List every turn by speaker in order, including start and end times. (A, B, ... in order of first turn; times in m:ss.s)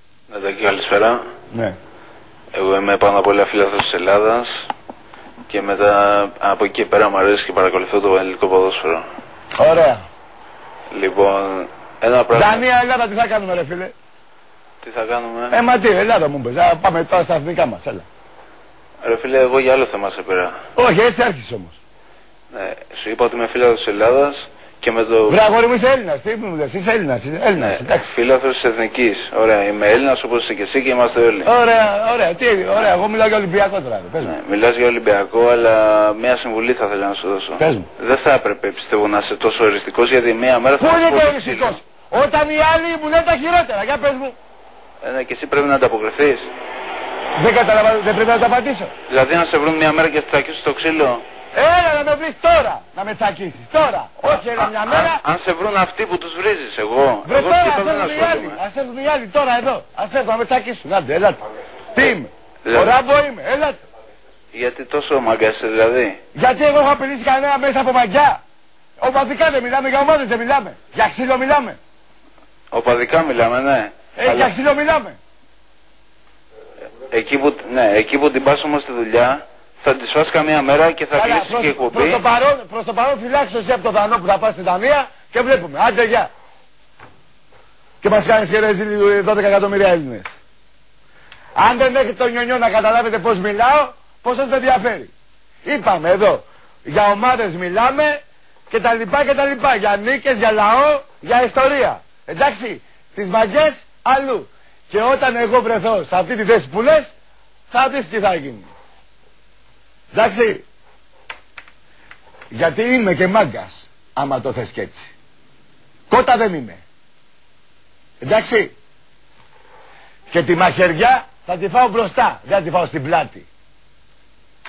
0:00.3-0:01.2 A
0:02.5-0:04.5 A
0:05.5-0:09.0 A
0:09.6-0:10.0 B
0:10.9-0:12.6 A
0:12.3-0:13.9 B
0:14.8-0:15.6 A
0:15.5-0:18.0 B
0:19.0-0:20.6 A
0:20.8-0:21.8 B
0:22.5-0:25.4 A
0:25.3-0:28.1 B
0:27.6-0:31.5 A
0:31.4-0:34.4 B
0:34.2-0:41.8 A
0:37.6-0:37.9 B
0:40.8-0:44.4 B
0:45.0-0:46.5 A
0:47.4-0:48.9 B
0:49.1-0:51.2 A
0:51.5-0:55.2 B
0:54.3-0:58.6 A
0:57.2-1:01.4 B
1:01.9-1:03.8 B
1:02.6-1:03.0 A
1:04.5-1:06.2 A
1:06.3-1:08.4 B
1:09.0-1:11.8 B
1:12.7-1:14.5 A
1:14.2-1:15.2 B
1:17.1-1:22.2 A
1:21.1-1:26.3 B
1:28.0-1:30.3 B
1:31.6-1:35.1 B
1:35.6-1:47.1 B
1:47.7-1:48.7 B
1:50.1-1:50.6 B
1:52.5-1:55.1 B
1:56.1-1:56.8 B
1:58.2-1:58.7 B
2:00.3-2:03.5 B